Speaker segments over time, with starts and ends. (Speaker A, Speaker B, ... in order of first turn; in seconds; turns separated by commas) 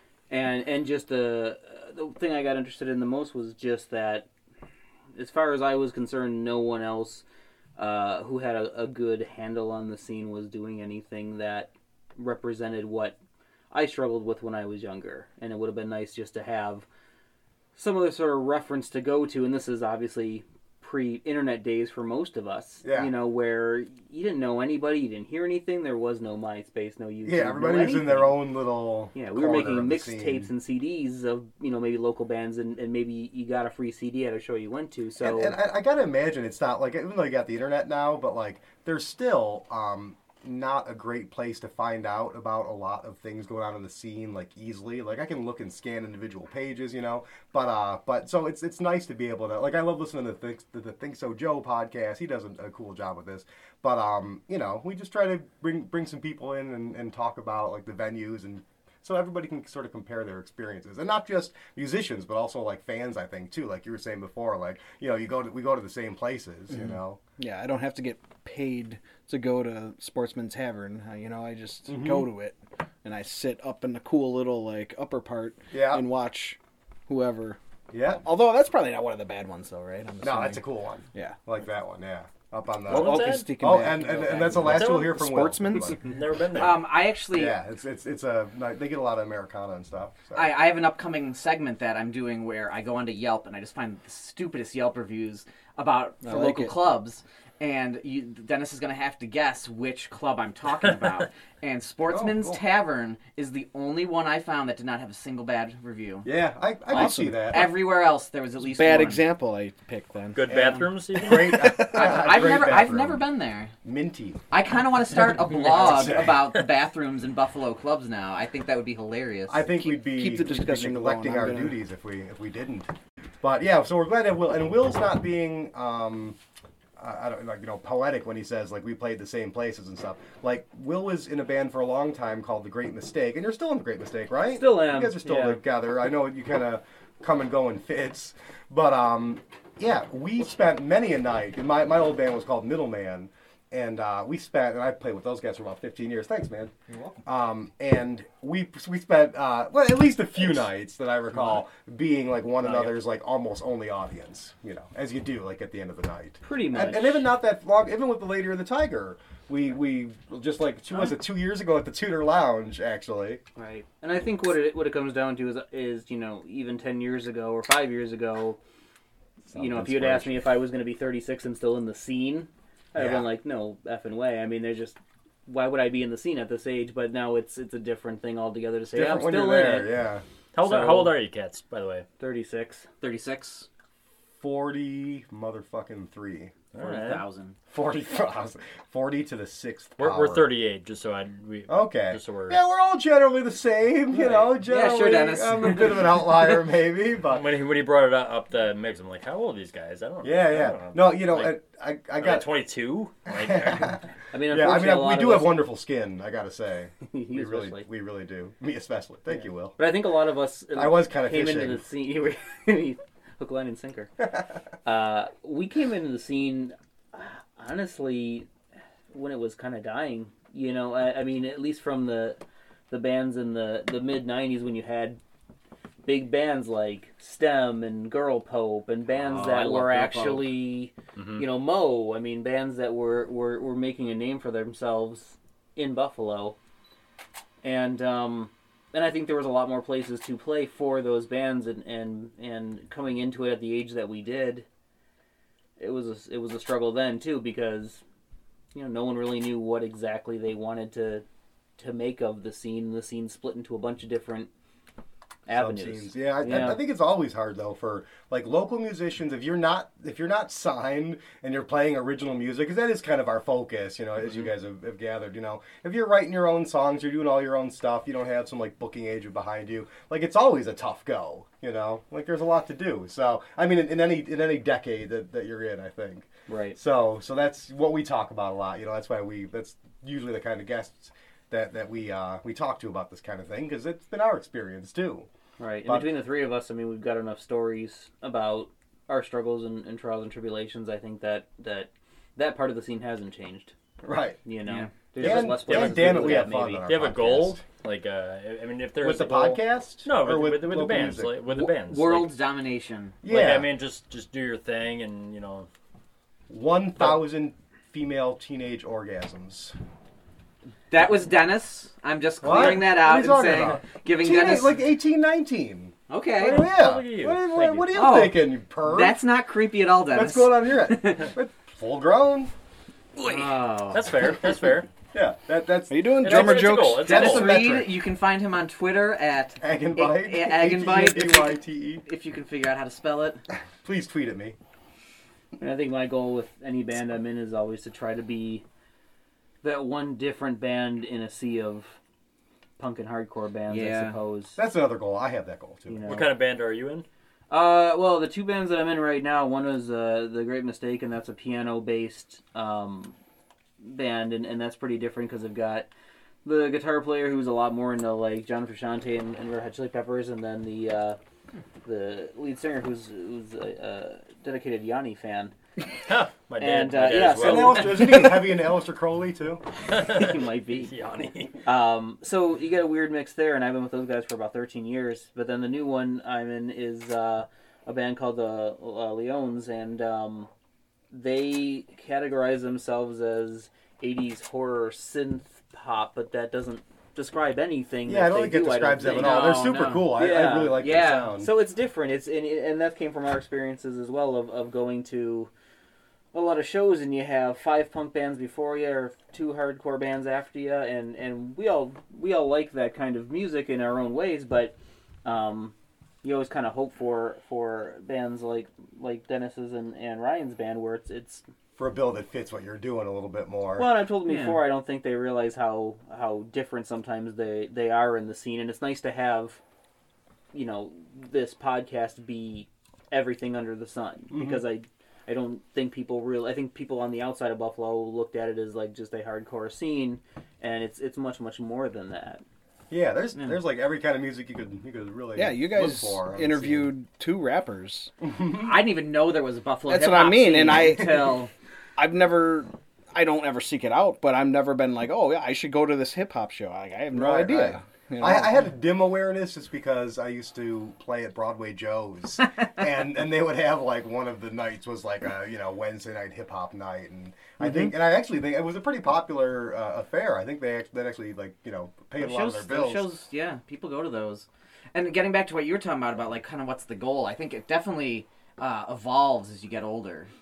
Speaker A: 0.3-4.3, Speaker A: 5.2-7.2, Speaker A: 7.8-13.2, Speaker A: 13.7-16.9, Speaker A: 17.8-28.4, Speaker B: 22.8-23.1, Speaker B: 27.2-30.5, Speaker A: 29.1-35.5, Speaker B: 35.2-67.2, Speaker C: 66.8-77.6, Speaker B: 71.9-72.3, Speaker B: 75.7-76.0, Speaker B: 77.9-78.2, Speaker C: 78.2-81.4, Speaker B: 80.2-86.0, Speaker D: 82.9-83.5, Speaker C: 82.9-86.1, Speaker D: 84.6-85.2, Speaker D: 86.0-86.8, Speaker E: 86.5-87.6, Speaker B: 87.3-90.5, Speaker E: 90.3-106.3, Speaker C: 96.2-96.7, Speaker B: 102.1-102.6, Speaker B: 106.2-107.7, Speaker C: 106.9-107.7, Speaker E: 106.9-109.2, Speaker C: 108.6-110.5, Speaker D: 110.3-111.8, Speaker B: 110.5-113.2, Speaker C: 111.3-112.3, Speaker E: 111.8-113.7, Speaker B: 113.8-114.4, Speaker E: 114.5-119.7, Speaker B: 115.5-116.4, Speaker B: 119.5-126.4, Speaker C: 119.7-121.8, Speaker B: 127.0-146.7, Speaker A: 134.5-135.6, Speaker B: 147.2-163.4, Speaker A: 156.4-157.3, Speaker A: 163.6-168.6, Speaker A: 169.5-179.9, Speaker B: 169.5-170.3, Speaker B: 172.9-173.3, Speaker B: 178.9-180.2, Speaker D: 180.5-182.1, Speaker A: 180.6-181.1, Speaker A: 182.2-182.9, Speaker E: 183.0-183.7, Speaker B: 184.4-186.5, Speaker D: 186.7-187.2, Speaker E: 186.8-187.6, Speaker B: 187.7-190.5, Speaker D: 190.0-192.6, Speaker B: 191.7-197.5, Speaker E: 194.2-196.4, Speaker D: 197.3-201.5, Speaker B: 200.2-202.5, Speaker D: 202.2-204.0, Speaker B: 203.3-209.8, Speaker A: 204.3-205.6, Speaker A: 207.1-207.8, Speaker A: 209.8-214.2, Speaker B: 210.8-211.8, Speaker A: 214.8-218.5, Speaker A: 219.1-225.2, Speaker A: 226.0-236.6, Speaker E: 229.1-230.5, Speaker D: 231.2-231.5, Speaker A: 237.6-244.7, Speaker A: 245.8-248.0, Speaker A: 248.7-251.2, Speaker A: 251.8-254.5, Speaker A: 255.5-256.8, Speaker B: 255.5-285.3, Speaker A: 276.5-276.8, Speaker A: 285.6-293.7, Speaker B: 285.9-286.1, Speaker B: 294.0-294.4, Speaker A: 294.4-296.8, Speaker B: 295.2-297.6, Speaker D: 295.2-302.3, Speaker B: 299.0-301.4, Speaker E: 301.5-303.2, Speaker B: 303.2-303.7, Speaker D: 303.3-305.7, Speaker B: 306.5-309.8, Speaker E: 310.9-314.8, Speaker B: 312.4-319.2, Speaker E: 316.1-316.7, Speaker D: 316.4-317.9, Speaker E: 317.9-321.3, Speaker B: 320.1-322.5, Speaker E: 323.2-324.4, Speaker D: 323.9-324.9, Speaker B: 325.1-327.9, Speaker C: 325.9-327.2, Speaker D: 326.2-327.7, Speaker E: 327.0-333.4, Speaker B: 329.6-332.0, Speaker B: 333.8-334.6, Speaker A: 335.6-338.6, Speaker A: 339.6-342.0, Speaker A: 342.8-344.6, Speaker E: 343.7-344.2, Speaker B: 344.6-346.2, Speaker A: 345.9-346.3, Speaker D: 346.0-347.1, Speaker A: 347.5-353.2, Speaker A: 353.8-355.9, Speaker A: 356.4-361.2, Speaker A: 361.9-365.5, Speaker D: 366.1-368.1, Speaker A: 366.6-368.4, Speaker B: 367.4-369.6, Speaker D: 369.9-371.6, Speaker A: 370.1-370.9, Speaker A: 371.6-380.5, Speaker A: 381.1-395.5, Speaker B: 388.1-391.5, Speaker E: 389.0-391.3, Speaker A: 396.3-411.4, Speaker B: 411.8-413.9, Speaker A: 413.8-419.6, Speaker E: 414.3-414.6, Speaker A: 420.5-432.4, Speaker B: 424.3-424.6, Speaker B: 432.9-436.9, Speaker C: 435.4-438.1, Speaker B: 438.2-438.8, Speaker E: 438.6-441.5, Speaker C: 439.9-441.4, Speaker C: 442.0-448.7, Speaker B: 447.1-463.1, Speaker C: 457.6-457.9, Speaker E: 462.2-470.3